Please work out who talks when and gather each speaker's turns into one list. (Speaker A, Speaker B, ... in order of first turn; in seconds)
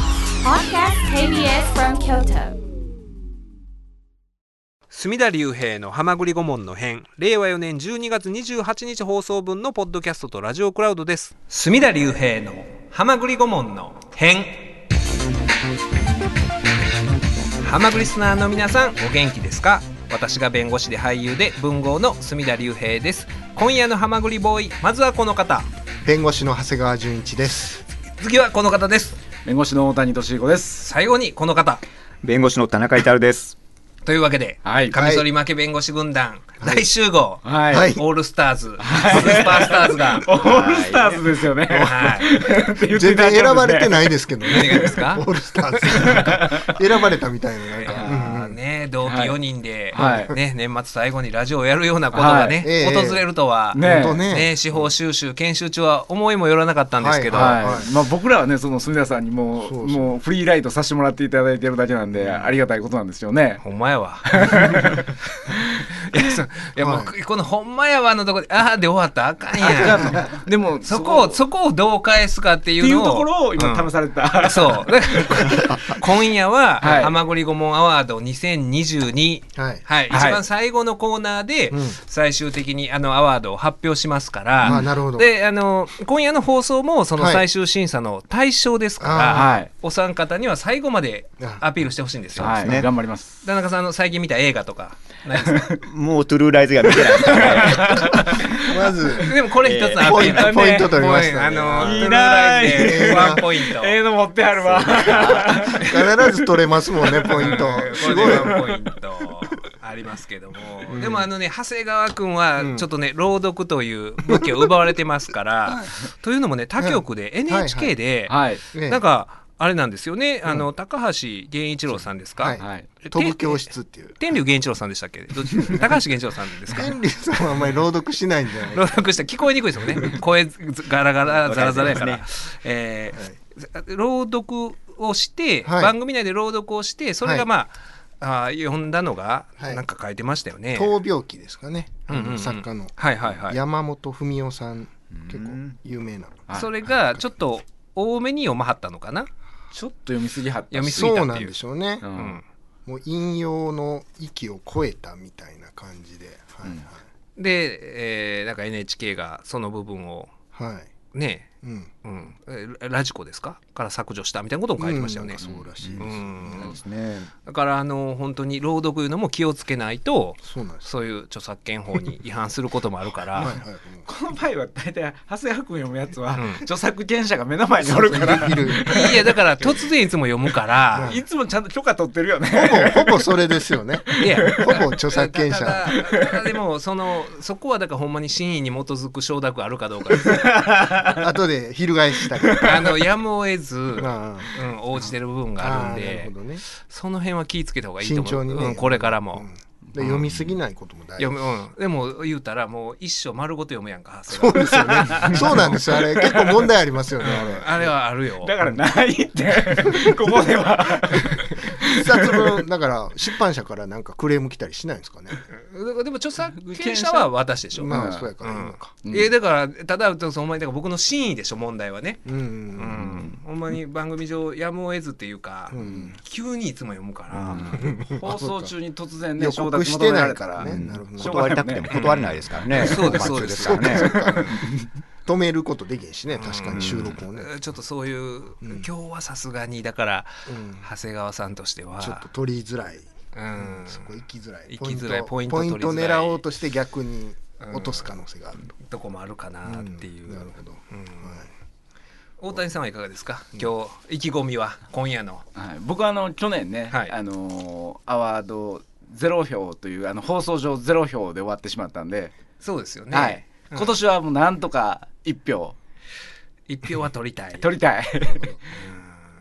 Speaker A: 0.4-2.6
Speaker B: 4.9-14.8, 17.6-25.7, 28.2-29.2, 30.9-31.8, 34.0-40.3, 41.7-42.4, 44.5-45.3, 46.0-46.4, 47.7-57.6, 63.6-65.0, 66.1-92.8, 93.4-95.8, 97.6-98.4, 99.2-104.0, 105.8-106.0, 107.3-127.0, 128.7-140.9, 142.1-143.6, 146.5-149.3, 150.7-151.5, 152.1-152.4, 157.4-160.3, 161.1-161.5, 162.0-165.4, 166.0-166.8, 167.4-173.5, 176.3-176.6, 178.1-181.2, 184.2-190.5, 192.6-199.5, 201.2-205.7, 207.2-208.5, 215.5-227.8, 231.9-234.5, 236.4-242.3, 243.3-244.1, 244.7-246.4, 247.6-248.2, 248.7-251.5, 252.4-255.4, 262.6-264.0, 266.7-267.7, 268.7-269.2
Speaker C: 26.1-27.7, 34.9-35.2, 37.7-38.0, 42.9-48.5, 50.0-50.3, 52.6-53.2, 53.8-54.5, 57.0-57.9, 59.7-60.1, 66.8-67.1, 70.0-70.2, 79.6-79.8, 81.7-82.0, 84.6-85.3, 87.2-87.4, 89.0-89.6, 98.6-99.4, 100.0-103.4, 105.8-108.6, 110.9-111.3, 112.6-112.8, 116.8-117.9, 118.7-119.0, 122.4-124.2, 125.5-126.0, 126.7-129.0, 135.7-135.9, 140.7-147.2, 150.8-152.1, 152.9-157.0, 160.6-160.9, 161.6-161.9, 164.8-166.8, 170.4-170.8, 173.3-174.1, 177.8-179.1, 180.9-181.2, 182.5-185.9, 191.2-193.0, 194.0-194.6, 195.6-196.6, 198.0-201.4, 204.3-207.9, 211.9-215.4, 217.8-218.9, 222.3-223.2, 225.7-226.2, 227.8-228.7, 229.4-231.5, 232.9-234.7, 235.2-237.5, 240.5-240.9, 242.0-248.7, 249.7-251.5
Speaker D: 29.4-30.9, 34.6-35.0, 37.4-37.9, 38.8-44.8, 45.8-46.7, 47.9-48.3, 49.0-49.4, 49.9-50.3, 52.1-52.6, 53.7-54.3, 57.3-63.6, 64.3-65.8, 69.6-71.4, 72.8-75.9, 76.8-77.1, 80.1-80.4, 89.3-89.7, 92.4-93.3, 97.0-99.1, 100.1-101.2, 101.7-106.3, 107.4-108.6, 118.3-118.6, 122.6-122.9, 149.7-151.0, 152.0-152.4, 165.4-165.7, 174.1-179.7, 181.0-184.8, 190.2-191.3, 192.4-192.9, 204.9-206.7, 207.2-207.5, 208.4-212.6, 216.6-217.3, 217.8-218.3, 219.0-219.3, 225.8-226.1, 227.5-231.9, 232.6-233.2, 234.3-234.7, 255.6-262.3, 263.1-265.8, 267.6-268.5
Speaker E: 32.2-33.5, 40.4-41.1, 92.3-92.9, 95.8-98.2, 99.6-100.1, 104.9-105.5, 131.3-132.2, 145.3-145.8, 165.8-167.3, 227.3-227.8, 230.6-234.7, 236.7-237.1